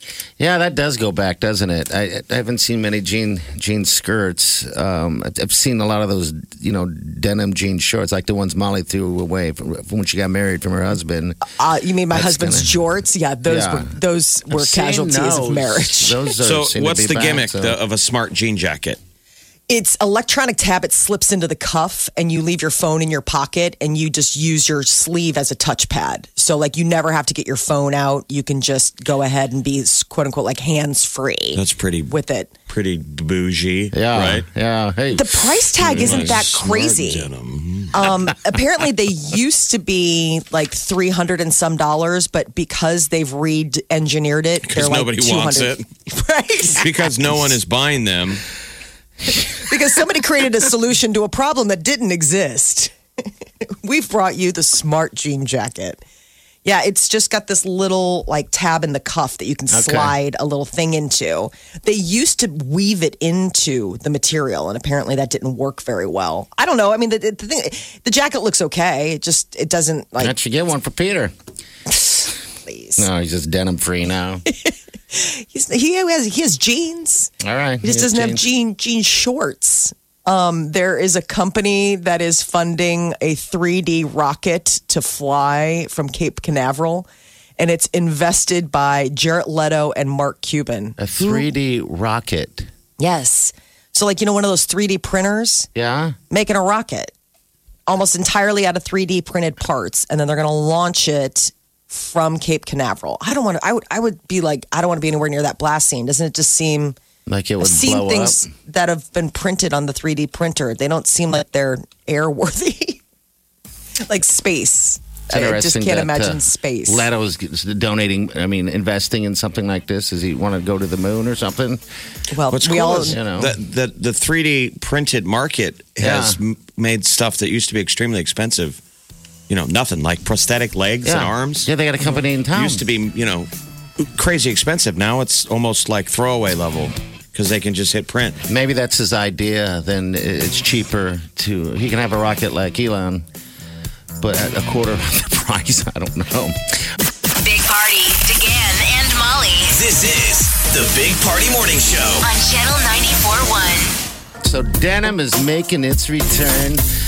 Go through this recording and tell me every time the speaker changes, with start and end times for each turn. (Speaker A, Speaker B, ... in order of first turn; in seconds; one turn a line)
Speaker A: 0.4-11.4
Speaker B: 11.5-16.3
Speaker A: 12.1-12.8
Speaker A: 13.4-13.9
Speaker A: 14.5-17.8
Speaker C: 16.4-19.0
Speaker B: 19.7-32.5
Speaker C: 31.5-32.1
Speaker C: 32.7-34.5
Speaker A: 33.9-36.5
Speaker B: 35.1-37.3
Speaker C: 35.8-38.0
Speaker B: 37.9-46.9
Speaker C: 44.6-45.8
Speaker C: 46.7-48.4
Speaker B: 49.5-52.9
Speaker B: 53.6-56.0
Speaker B: 56.6-70.3
Speaker A: 59.7-60.1
Speaker A: 70.2-71.3
Speaker B: 71.9-73.1
Speaker A: 73.0-74.4
Speaker B: 74.5-91.5
Speaker A: 77.4-78.4
Speaker A: 91.0-92.7
Speaker B: 93.0-95.7
Speaker A: 95.7-96.2
Speaker B: 96.3-97.1
Speaker B: 97.9-107.0
Speaker A: 107.3-108.4
Speaker B: 107.6-113.0
Speaker B: 114.1-117.1
Speaker A: 115.3-121.8
Speaker B: 122.3-123.2
Speaker C: 122.5-128.8
Speaker A: 122.9-123.5
Speaker A: 126.0-126.4
Speaker C: 129.5-131.7
Speaker A: 131.0-132.8
Speaker C: 132.5-133.5
Speaker C: 134.1-138.4
Speaker A: 138.5-143.2
Speaker A: 144.2-146.6
Speaker D: 147.3-149.8
Speaker E: 149.7-152.2
Speaker D: 152.2-153.9
Speaker A: 154.4-156.8